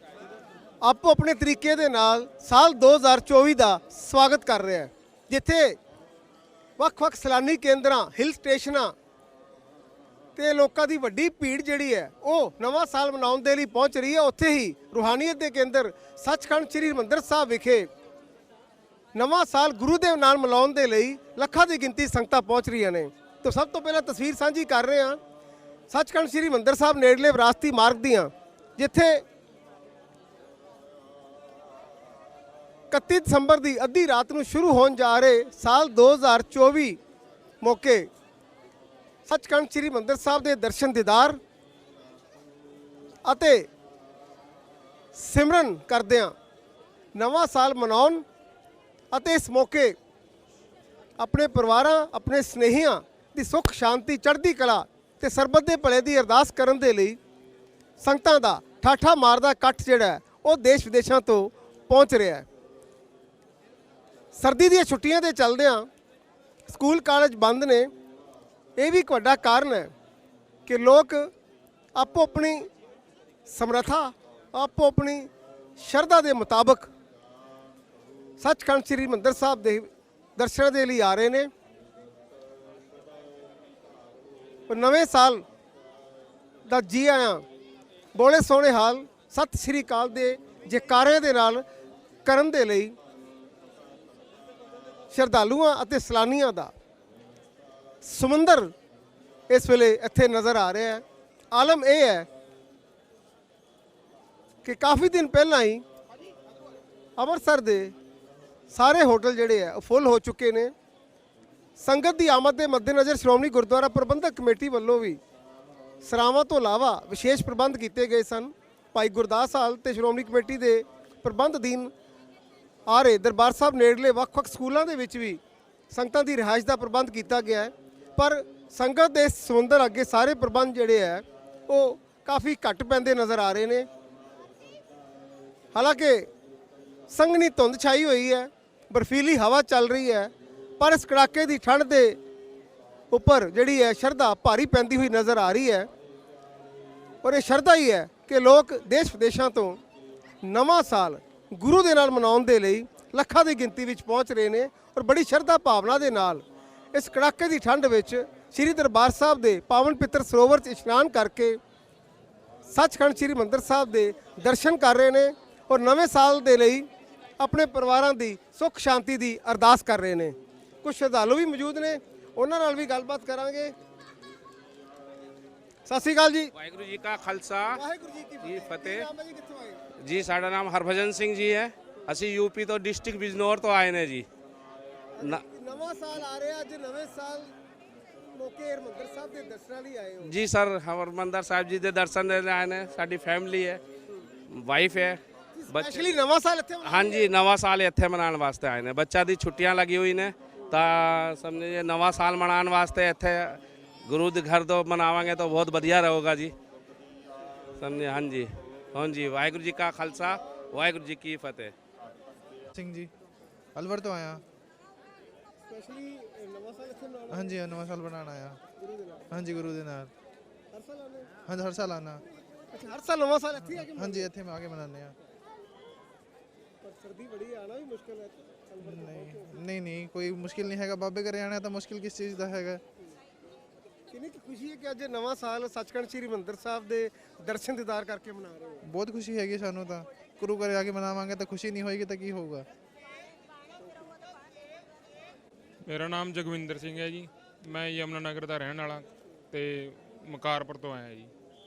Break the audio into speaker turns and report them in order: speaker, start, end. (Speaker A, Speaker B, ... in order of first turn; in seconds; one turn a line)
Speaker A: 0.8-5.8
Speaker A: 6.8-8.9
Speaker A: 10.4-17.9
Speaker A: 19.1-25.2
Speaker A: 25.9-29.2
Speaker A: 32.9-37.0
Speaker A: 37.6-38.1
Speaker A: 39.3-41.4
Speaker A: 43.2-43.7
Speaker A: 45.1-46.4
Speaker A: 47.1-48.2
Speaker A: 49.1-50.0
Speaker A: 51.2-57.2
Speaker A: 58.0-62.5
Speaker A: 64.3-65.9
Speaker A: 66.7-67.9
Speaker A: 68.8-69.9
Speaker A: 70.7-71.3
Speaker A: 72.0-72.7
Speaker A: 73.5-76.9
Speaker A: 78.4-81.5
Speaker A: 84.7-85.4
Speaker A: 86.7-87.4
Speaker A: 88.1-91.6
Speaker A: 92.2-93.0
Speaker A: 95.1-96.7
Speaker A: 98.0-98.7
Speaker A: 99.5-102.3
Speaker A: 104.6-105.8
Speaker A: 107.2-107.9
Speaker A: 108.7-110.7
Speaker A: 111.8-115.2
Speaker A: 116.0-121.9
Speaker A: 122.9-125.4
Speaker A: 125.9-133.9
Speaker A: 135.7-136.3
Speaker A: 137.1-142.2
Speaker A: 143.1-145.9
Speaker A: 147.2-149.8
Speaker A: 150.4-161.6
Speaker A: 162.6-166.9
Speaker A: 167.4-173.7
Speaker A: 175.9-176.5
Speaker B: 176.6-177.8
Speaker A: 177.7-179.8
Speaker B: 178.4-179.1
Speaker B: 180.0-184.2
Speaker A: 185.2-187.5
Speaker A: 188.3-190.3
Speaker B: 190.2-193.8
Speaker B: 194.5-196.1
Speaker A: 195.5-197.3
Speaker B: 196.8-206.5
Speaker B: 207.8-211.7
Speaker C: 212.8-213.1
Speaker C: 213.8-214.4
Speaker A: 215.7-217.5
Speaker C: 217.3-218.6
Speaker A: 218.8-219.2
Speaker C: 219.3-220.1
Speaker A: 220.7-221.3
Speaker C: 221.5-222.2
Speaker A: 222.7-224.3
Speaker C: 223.7-225.2
Speaker A: 226.8-229.6
Speaker C: 228.8-232.8
Speaker A: 234.1-238.8
Speaker C: 238.9-242.7
Speaker D: 245.9-251.3